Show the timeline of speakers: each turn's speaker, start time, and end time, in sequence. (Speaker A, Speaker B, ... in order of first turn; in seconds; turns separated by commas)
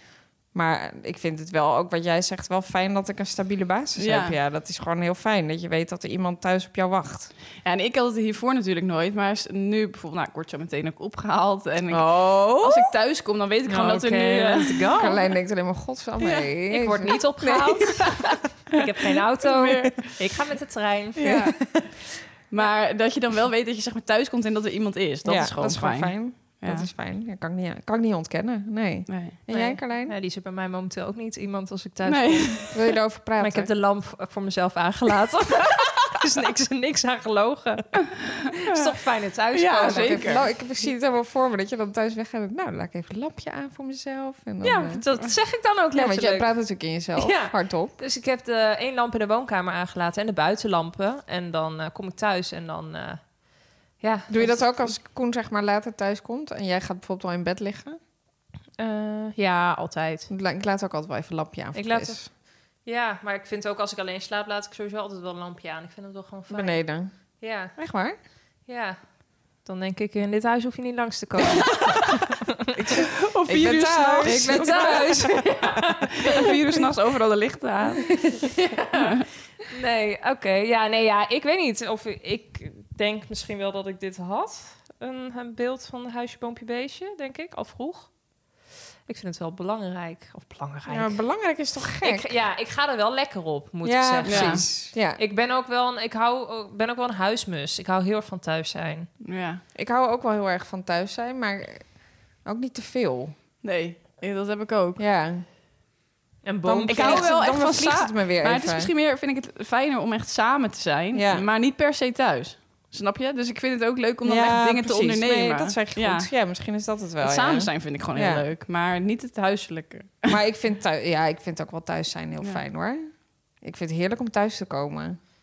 Speaker A: 0.5-7.3, Speaker B: 4.0-4.3, Speaker B: 7.6-14.8, Speaker A: 11.9-12.9, Speaker C: 13.7-15.2, Speaker A: 15.0-18.2, Speaker B: 16.2-16.5, Speaker C: 16.7-21.4, Speaker B: 19.4-20.1, Speaker B: 21.2-21.6, Speaker A: 21.2-21.9, Speaker B: 22.5-26.9, Speaker A: 25.2-30.1, Speaker B: 29.1-29.4, Speaker C: 29.5-32.7, Speaker B: 32.0-32.7, Speaker A: 32.7-33.7, Speaker C: 33.4-40.4, Speaker B: 39.5-40.4, Speaker A: 39.7-45.0, Speaker C: 44.6-46.5, Speaker A: 45.9-47.9, Speaker C: 47.2-53.2, Speaker C: 54.0-54.9, Speaker A: 54.3-58.0, Speaker C: 58.8-60.3, Speaker A: 60.3-62.3, Speaker C: 61.7-62.2, Speaker C: 62.8-66.8, Speaker A: 66.5-67.1, Speaker C: 67.4-67.7, Speaker A: 67.8-68.2, Speaker C: 68.7-69.0, Speaker C: 69.6-72.5, Speaker A: 72.8-75.7, Speaker B: 73.2-75.2, Speaker C: 74.2-76.3, Speaker B: 76.2-78.2, Speaker C: 78.6-79.0, Speaker B: 78.9-79.2, Speaker C: 79.7-88.1, Speaker C: 89.1-91.2, Speaker A: 90.9-92.3, Speaker C: 92.0-99.1, Speaker A: 93.8-95.2, Speaker B: 94.2-94.6, Speaker B: 99.2-99.6, Speaker A: 99.7-101.9, Speaker A: 102.4-103.3, Speaker B: 103.6-105.0, Speaker A: 105.0-105.4, Speaker C: 106.4-107.3, Speaker A: 106.6-108.9, Speaker B: 106.9-116.3, Speaker A: 111.1-111.5, Speaker A: 114.2-118.4, Speaker B: 117.2-120.4, Speaker A: 120.3-123.1, Speaker A: 123.6-125.2